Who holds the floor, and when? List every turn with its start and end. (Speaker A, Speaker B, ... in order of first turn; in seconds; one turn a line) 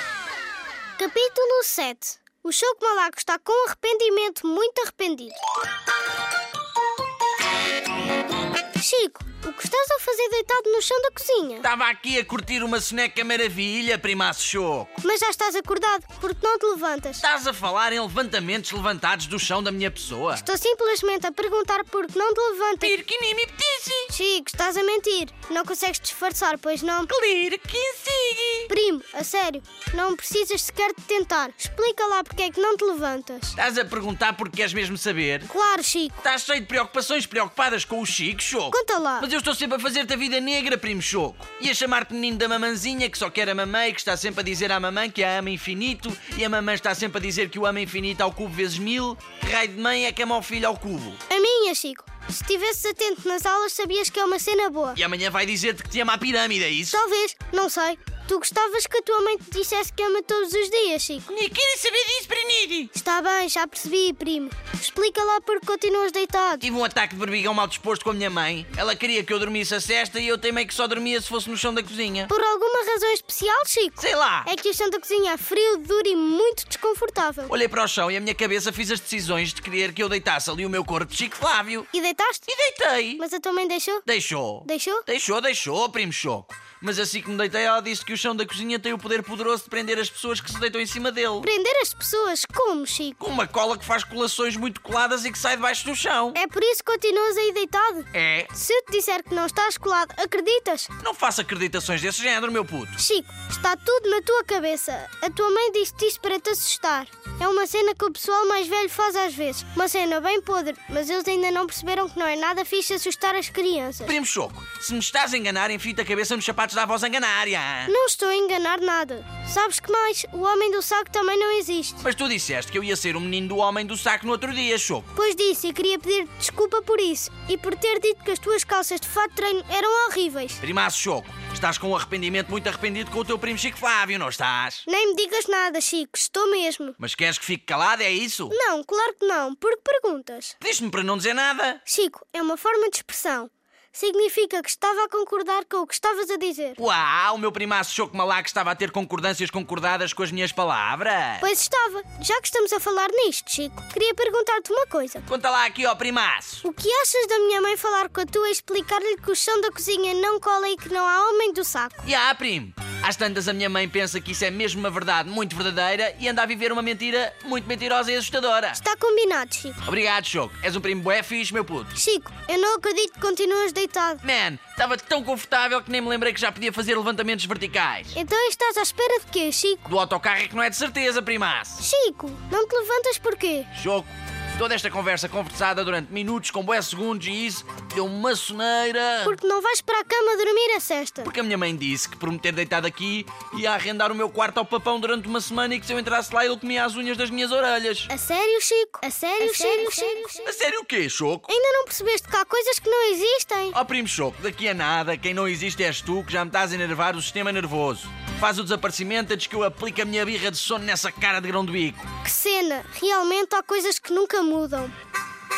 Speaker A: 1.0-5.3
Speaker A: 8.8-11.7
Speaker B: 11.6-15.0
Speaker A: 15.0-17.2
Speaker B: 17.2-20.4
Speaker A: 20.3-22.9
Speaker B: 22.8-24.1
Speaker A: 24.1-27.1
Speaker B: 27.1-28.7
Speaker A: 28.7-33.6
Speaker B: 33.5-35.5
Speaker A: 35.5-36.2
Speaker B: 36.2-51.2
Speaker A: 38.7-39.3
Speaker A: 51.3-55.0
Speaker B: 55.0-57.0
Speaker A: 56.9-61.3
Speaker B: 61.3-62.9
Speaker A: 62.9-66.7
Speaker B: 66.6-72.3
Speaker A: 72.3-77.5
Speaker B: 74.0-74.5
Speaker B: 77.5-81.9
Speaker A: 81.9-82.5
Speaker B: 82.5-83.2
Speaker A: 83.2-84.0
Speaker B: 84.0-91.5
Speaker A: 84.6-85.0
Speaker A: 91.4-93.2
Speaker B: 93.2-96.4
Speaker A: 96.3-100.9
Speaker B: 98.1-98.5
Speaker B: 101.0-103.0
Speaker A: 103.0-114.2
Speaker B: 114.0-117.9
Speaker A: 117.9-122.0
Speaker B: 122.0-125.1
Speaker A: 125.1-130.6
Speaker B: 130.6-134.8
Speaker A: 134.9-137.0
Speaker B: 137.0-138.6
Speaker A: 138.5-140.5
Speaker B: 140.6-141.8
Speaker A: 141.8-146.8
Speaker B: 146.8-151.4
Speaker A: 151.4-155.2
Speaker B: 155.3-156.6
Speaker A: 156.6-162.0
Speaker B: 162.0-168.8
Speaker A: 168.7-169.8
Speaker B: 169.8-171.9
Speaker A: 171.9-174.2
Speaker B: 174.2-178.2
Speaker A: 178.1-179.9
Speaker B: 179.8-181.8
Speaker A: 181.8-183.7
Speaker B: 183.7-189.3
Speaker A: 189.2-191.3
Speaker B: 191.2-198.1
Speaker A: 198.1-200.5
Speaker B: 200.4-201.5
Speaker A: 201.5-203.8
Speaker B: 203.7-212.1
Speaker A: 212.2-214.9